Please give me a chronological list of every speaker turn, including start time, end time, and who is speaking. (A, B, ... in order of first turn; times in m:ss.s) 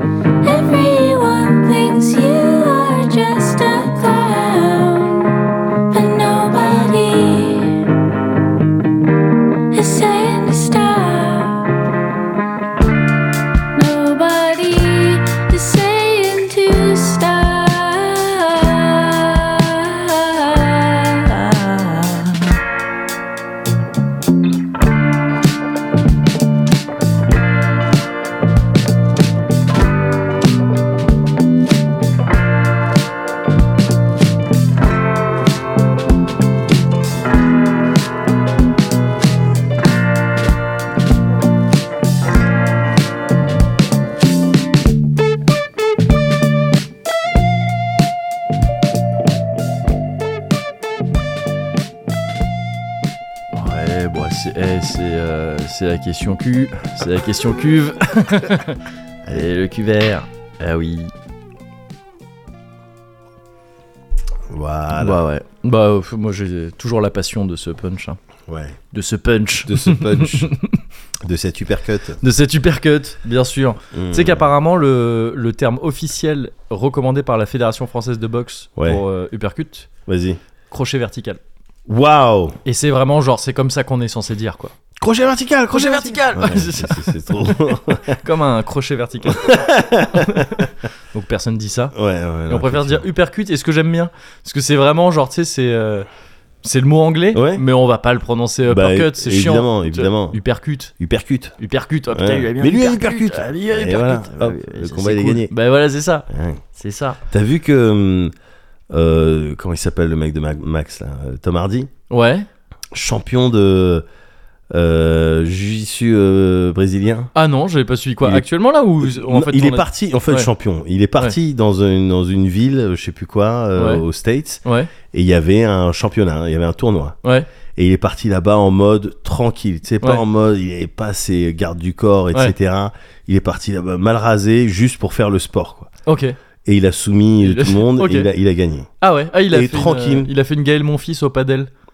0:00.4-0:05.4 A
0:05.9-0:07.9 A
0:09.7-0:11.7 A
0:13.7-0:22.6 A
0:53.5-0:58.8 B
0:59.3-1:01.1 B
1:04.5-1:05.2 C
1:04.9-1:08.2 B
1:08.5-1:08.8 C
1:08.9-1:10.8 B
1:09.7-1:10.5 C
1:11.2-1:12.2 C
1:12.2-1:19.9 B
1:13.9-1:14.5 C
1:18.8-1:19.0 C
1:20.1-1:20.4 C
1:20.7-1:21.4 B
1:21.9-1:22.6 C
1:22.6-1:24.7 B
1:25.0-1:28.2 C
1:25.7-1:27.3 B
1:28.1-1:31.9 B
1:29.3-1:30.6 C
1:31.9-1:33.1 C
1:32.5-1:36.1 B
1:36.6-1:40.9 B
1:37.3-1:37.6 C
1:38.7-1:40.4 C
1:41.0-1:41.5 C
1:41.6-1:47.2 B
1:42.1-1:45.5 C
1:46.3-1:46.6 C
1:47.3-1:48.3 C
1:48.9-1:51.9 C
1:52.1-1:52.5 B
1:52.9-1:54.0 C
1:54.7-1:57.3 C
1:57.4-2:00.5 B
1:59.0-2:07.2 C
2:03.8-2:04.0 B
2:04.6-2:04.9 B
2:07.8-2:15.9 C
2:16.1-2:16.4 B
2:16.6-2:18.9 C
2:17.4-2:18.3 B
2:19.0-2:21.7 B
2:19.5-2:20.3 C